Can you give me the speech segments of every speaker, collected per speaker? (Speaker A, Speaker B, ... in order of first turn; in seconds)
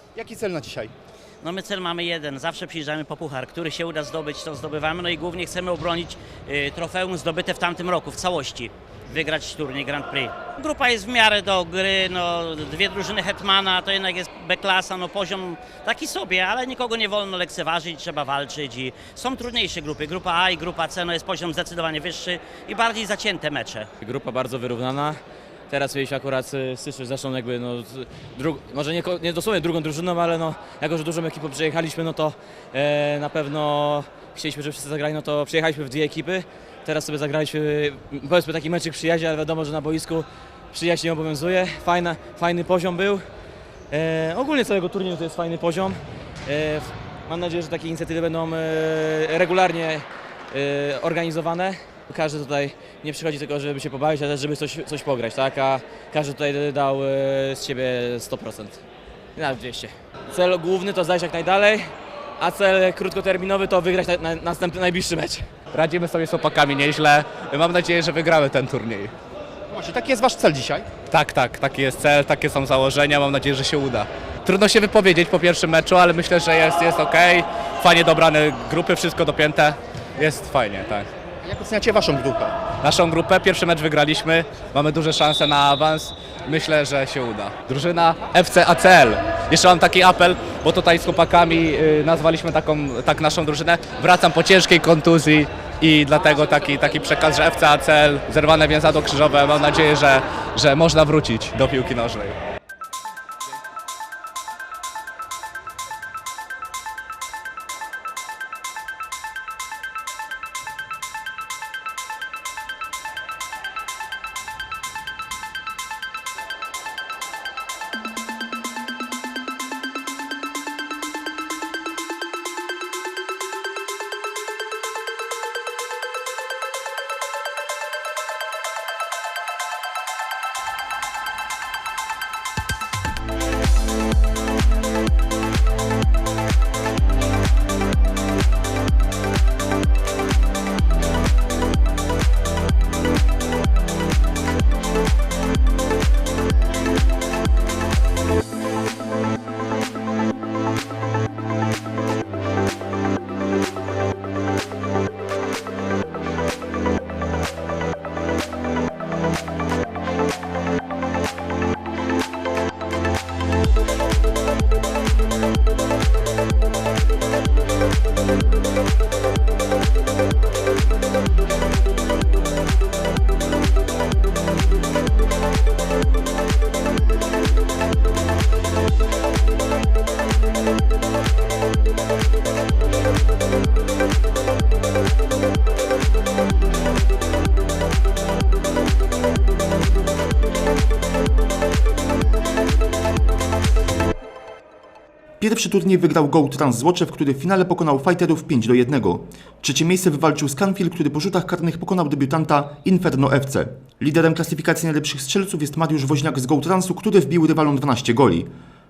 Speaker A: 0.1-0.9, 69.7-70.9, 81.4-82.6
Speaker B: 1.4-23.9
Speaker C: 24.0-25.2, 25.7-43.2, 43.9-58.8, 59.4-65.5
Speaker D: 65.7-69.1, 71.1-81.1, 82.8-102.4
Speaker E: 195.4-208.5